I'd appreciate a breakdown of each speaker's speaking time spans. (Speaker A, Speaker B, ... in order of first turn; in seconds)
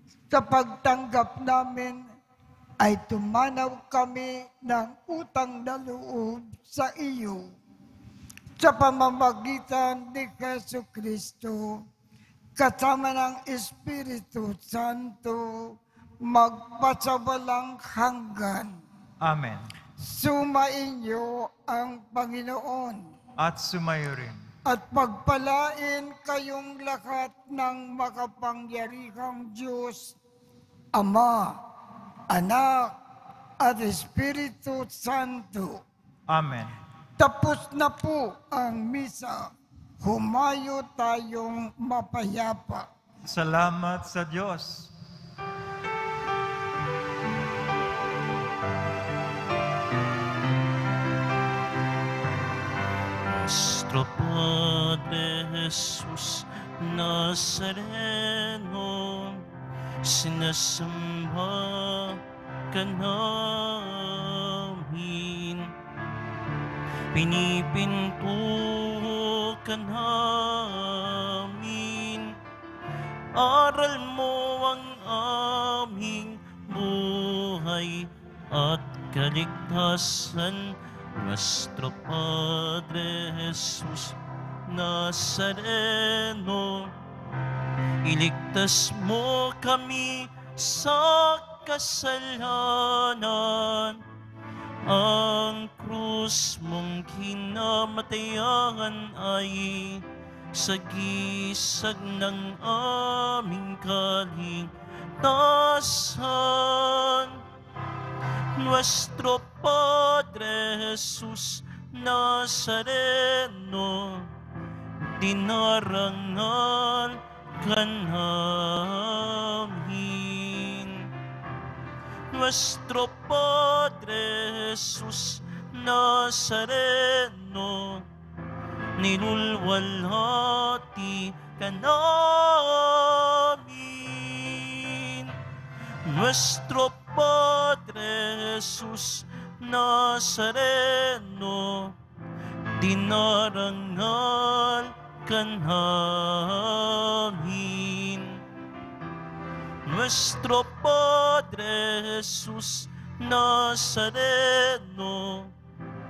Speaker A: 0.3-2.0, 2.8-7.4, 8.6-11.8, 12.6-15.8, 16.3-18.8, 20.0-23.0, 24.7-30.2, 30.9-31.6, 32.3-32.9, 33.6-35.8, 37.2-42.9
Speaker B: 19.2-19.7, 23.4-24.4, 36.3-36.7, 43.2-44.9
Speaker C: 53.4-59.4, 60.0-62.2, 62.7-65.7, 67.1-72.3, 73.3-86.9, 88.0-94.0, 94.8-107.4, 108.6-114.3, 115.2-121.1, 122.3-128.1, 129.0-135.3, 136.1-142.0, 142.8-148.4, 149.8-155.5